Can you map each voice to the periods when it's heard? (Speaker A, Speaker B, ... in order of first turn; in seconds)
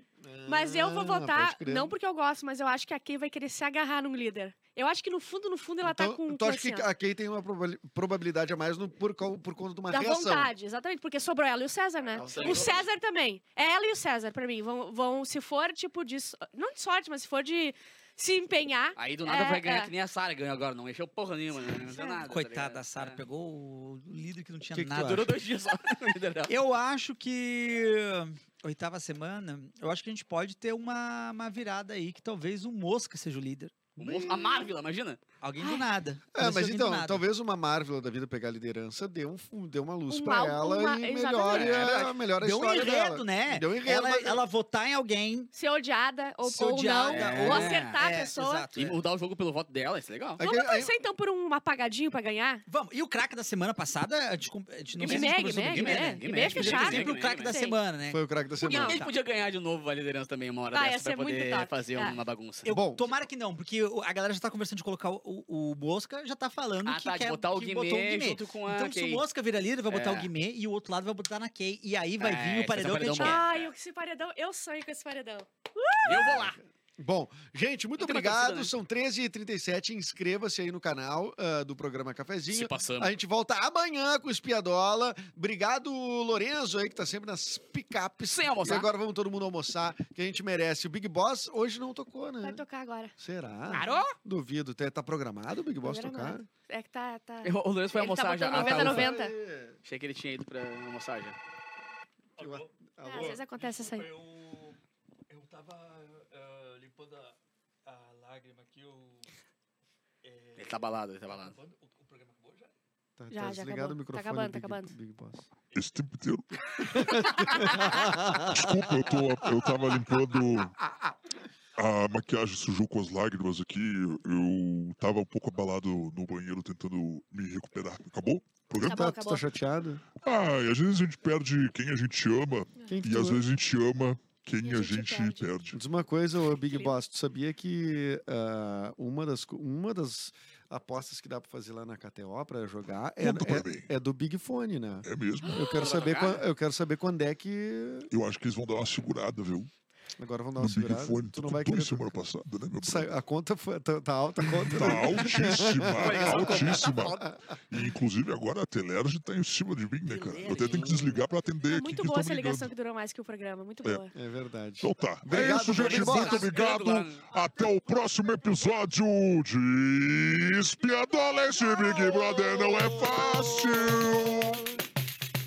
Speaker A: 0.2-1.9, 5.8-10.5, 12.2-12.8, 34.0-34.7, 36.3-44.4, 50.4-50.9, 58.1-59.0, 62.7-63.1, 76.1-92.6, 93.2-96.5, 98.5-99.8, 102.4-103.4, 113.2-115.5, 116.9-119.7, 128.7-130.1, 132.8-133.5, 135.7-148.1, 150.2-152.2, 152.8-157.3, 164.1-166.5, 171.6-174.4
Speaker B: 0.5-6.8, 9.9-19.9, 21.8-22.2, 40.1-41.8, 45.5-48.7, 50.4-52.6, 55.0-57.8, 60.7-62.2, 73.2-76.3, 92.4-93.1, 95.8-99.3, 103.0-104.1, 113.3-114.9, 128.8-129.4, 134.6-135.5, 161.7-164.1
Speaker C: 12.2-12.8, 19.0-23.2, 24.7-26.5, 34.0-35.2, 41.5-42.1, 47.1-47.9, 48.8-50.4, 55.0-57.5, 58.6-62.7, 66.8-69.2, 69.9-70.3, 72.2-73.7, 76.0-76.6, 78.0-78.7, 82.5-83.1, 88.3-88.9, 93.7-94.1, 97.4-99.1, 99.8-101.3, 110.6-111.6, 145.8-146.4, 156.0-157.2, 160.6-160.9, 165.6-167.2
Speaker D: 22.2-25.3, 26.5-33.8, 35.4-37.2, 42.4-45.5, 46.4-49.0, 52.7-59.1, 62.6-73.4, 160.1-161.0
Speaker E: 102.3-104.8, 105.3-109.3, 110.2-112.7
Speaker F: 115.7-120.8, 121.8-129.2, 130.1-135.8, 143.2-143.9, 145.0-146.0, 148.1-149.7, 150.6-153.1, 154.4-162.7, 164.8-174.6